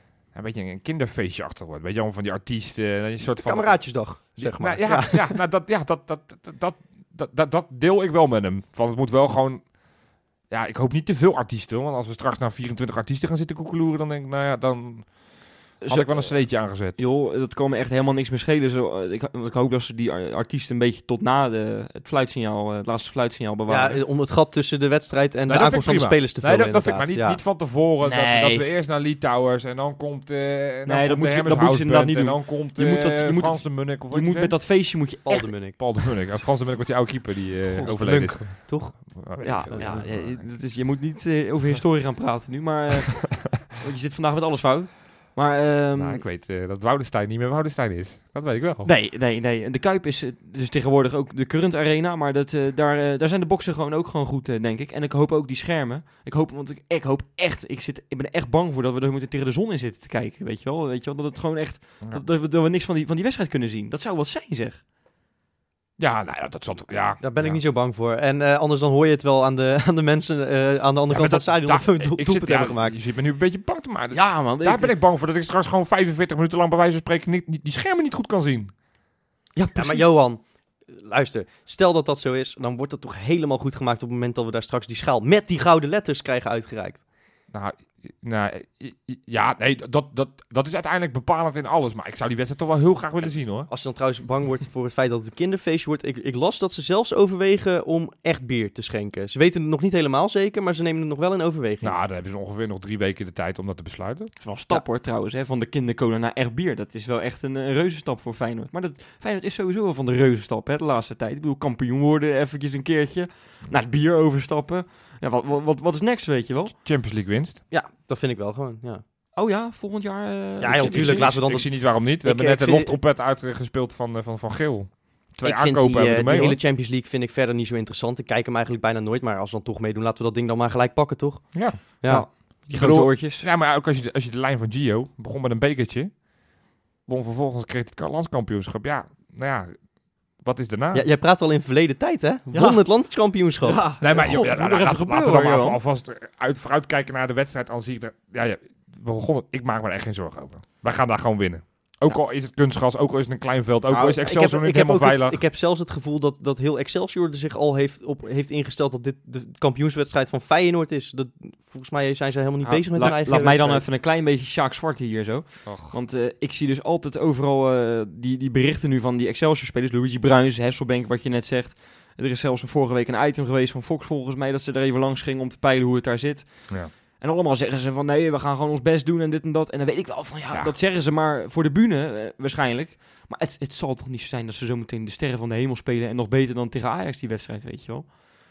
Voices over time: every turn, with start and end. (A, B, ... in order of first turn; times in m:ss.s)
0:00.3-0:09.7 A
0:03.4-0:05.4 B
0:10.5-0:15.1 A
0:15.8-0:24.0 C
0:15.9-0:17.0 A
0:23.7-0:27.4 B
0:25.5-0:34.5 A
0:28.0-0:28.7 C
0:30.8-0:35.6 C
0:35.2-0:35.8 B
0:35.8-0:40.5 A
0:37.7-0:39.2 B
0:39.4-0:46.2 C
0:39.7-0:40.0 B
0:46.0-0:48.9 A
0:48.8-1:04.8 C
1:06.0-1:07.6 A
1:07.2-1:13.0 B
1:11.1-1:18.7 A
1:14.1-1:14.9 C
1:19.6-1:20.1 C
1:19.8-1:27.0 B
1:27.5-1:33.7 A
1:33.7-1:42.0 B
1:41.8-1:44.3 A
1:44.4-1:56.7 C
1:56.8-1:57.6 A
1:57.7-1:59.0 B
1:59.3-2:01.4 C
2:00.6-2:03.0 B
2:00.7-2:06.6 A
2:05.4-2:12.3 B
2:11.5-2:11.8 A
2:12.0-2:13.5 C
2:12.4-2:16.1 A
2:17.0-2:19.7 A
2:20.4-2:21.0 A
2:20.9-2:23.8 B
2:22.5-2:22.8 C
2:23.6-2:25.8 C
2:24.0-2:35.4 A
2:33.9-2:43.8 B
2:42.6-3:08.1 C
2:45.6-2:45.9 A